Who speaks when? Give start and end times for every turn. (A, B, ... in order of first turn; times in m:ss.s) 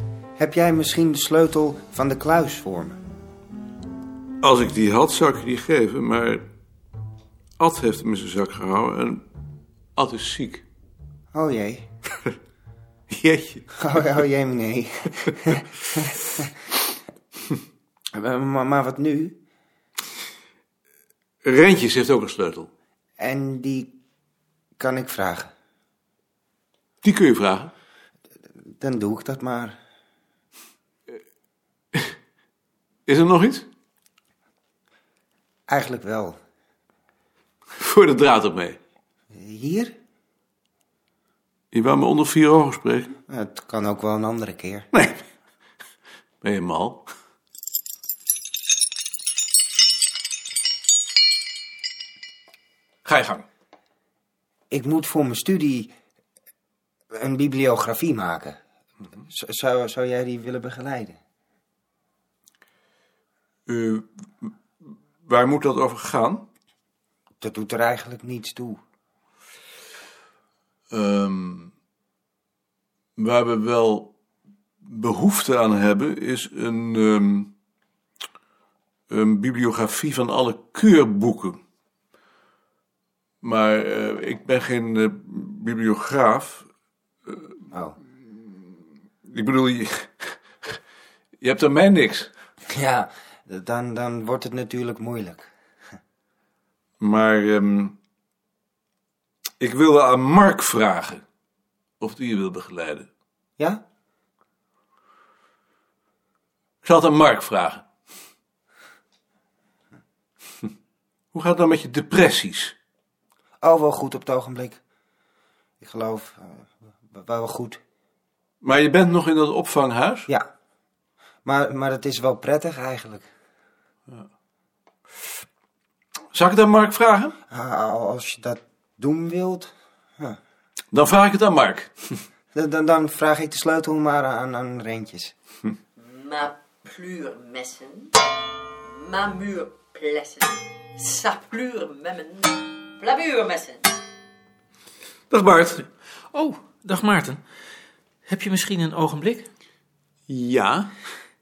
0:00.4-0:03.0 A
0:04.4-0:06.5 B
0:07.6-0:09.2 B
0:10.0-0:10.6 B
0:11.3-0:11.8 A
0:13.1-0:13.6 B
0:13.8-0:15.6 A
0:18.1-0:19.4 A
0:21.4-0:22.7 B
0:23.2-0:23.9 A
0:24.8-0:25.5 A
0:27.0-0:27.7 B
0:28.8-0:29.8 A
0:33.1-0:33.7 B
0:35.7-0:36.4 A
0:37.8-0:38.8 B
0:39.3-0:39.9 A
0:41.7-0:43.1 B
0:43.3-0:44.9 A
0:44.9-0:45.2 B
0:46.4-0:47.1 B
0:53.0-0:53.4 B
0:54.7-0:55.9 A
0:57.1-0:58.6 A
0:59.3-1:01.2 A
1:03.7-1:04.5 B
1:05.2-1:06.4 B
1:07.4-1:08.8 A
1:10.9-1:11.7 B
1:13.2-1:14.1 B
1:14.8-1:17.5 B
1:19.1-1:21.6 B
1:23.4-1:26.7 B
1:27.7-1:28.0 A
1:29.3-1:30.7 B
1:31.4-1:32.3 B
1:32.8-1:35.5 A
1:37.0-1:38.0 B
1:39.6-1:41.2 B
1:42.0-1:43.1 B
1:46.8-1:47.8 B
1:51.3-1:52.7 B
1:53.6-1:54.8 A
1:55.8-1:57.8 A
1:58.6-2:00.3 B
2:01.4-2:03.3 A
2:06.3-2:07.4 B
2:07.5-2:10.4 A
2:10.9-2:11.9 B
2:12.6-2:15.3 A
2:16.0-2:18.1 C
2:18.9-2:23.9 C
2:25.3-2:25.9 B
2:26.3-2:27.4 D
2:28.3-2:29.5 D
2:30.3-2:30.9 B